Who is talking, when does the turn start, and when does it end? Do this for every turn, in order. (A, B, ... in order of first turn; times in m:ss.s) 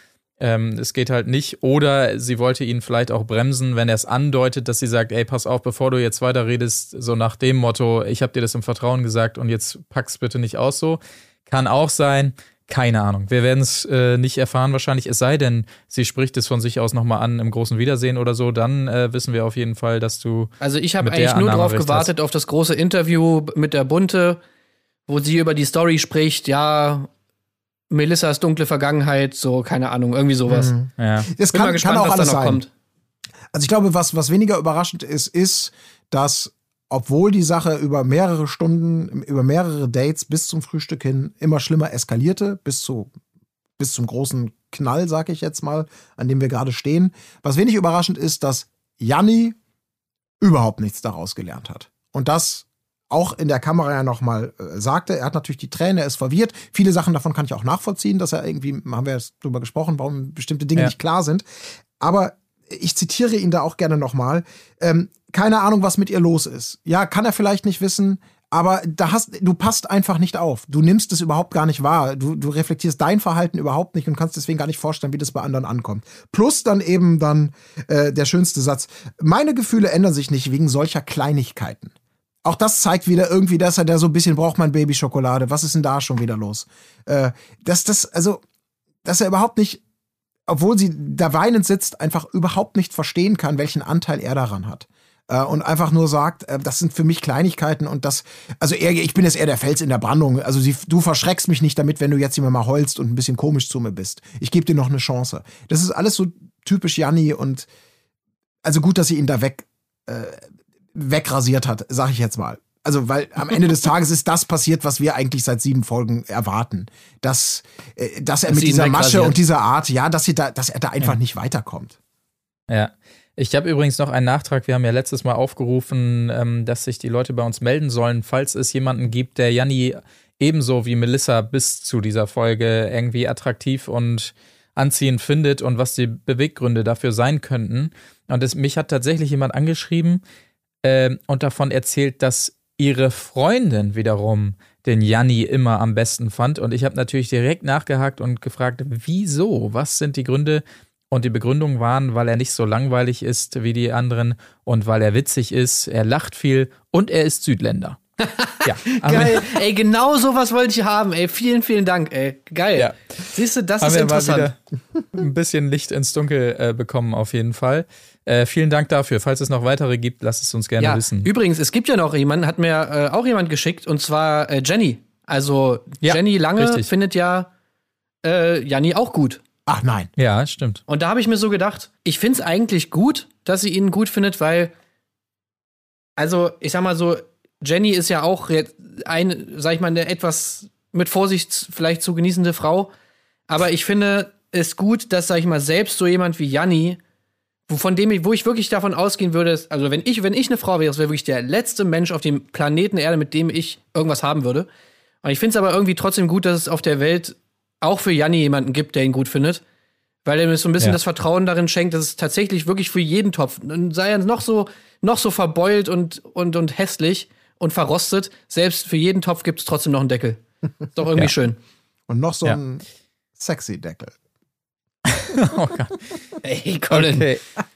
0:00.4-0:22.1 A
0:20.6-0:24.4 B
0:25.1-0:27.1 B
0:27.9-0:30.7 B
0:30.5-0:32.6 C
0:31.0-0:31.3 A
0:31.5-0:32.7 B
0:33.5-0:43.1 C
0:43.8-0:49.6 C
0:50.4-1:01.4 C
1:02.0-1:21.9 C
1:22.4-1:28.4 C
1:29.0-1:29.8 C
1:30.5-1:47.7 C
1:48.6-1:50.4 C
1:51.0-2:02.0 C
1:58.5-1:59.4 B
2:02.7-2:20.2 A
2:20.8-2:38.0 A
2:38.3-2:44.5 B
2:38.6-2:39.6 A
2:43.8-2:44.6 A
2:45.1-2:51.3 A
2:50.8-2:57.5 B
2:56.0-2:56.9 A
2:58.2-2:59.4 B
2:59.6-3:00.1 C
3:00.2-3:00.8 A
3:00.9-3:04.7 B
3:06.2-3:12.9 B
3:13.5-3:17.0 B
3:17.7-3:24.7 B
3:25.2-3:29.6 B
3:30.2-3:40.4 B
3:41.0-3:41.6 B
3:42.1-3:42.8 C
3:43.4-3:44.1 C
3:45.1-3:46.0 A
3:46.4-3:47.3 B
3:46.9-3:47.4 A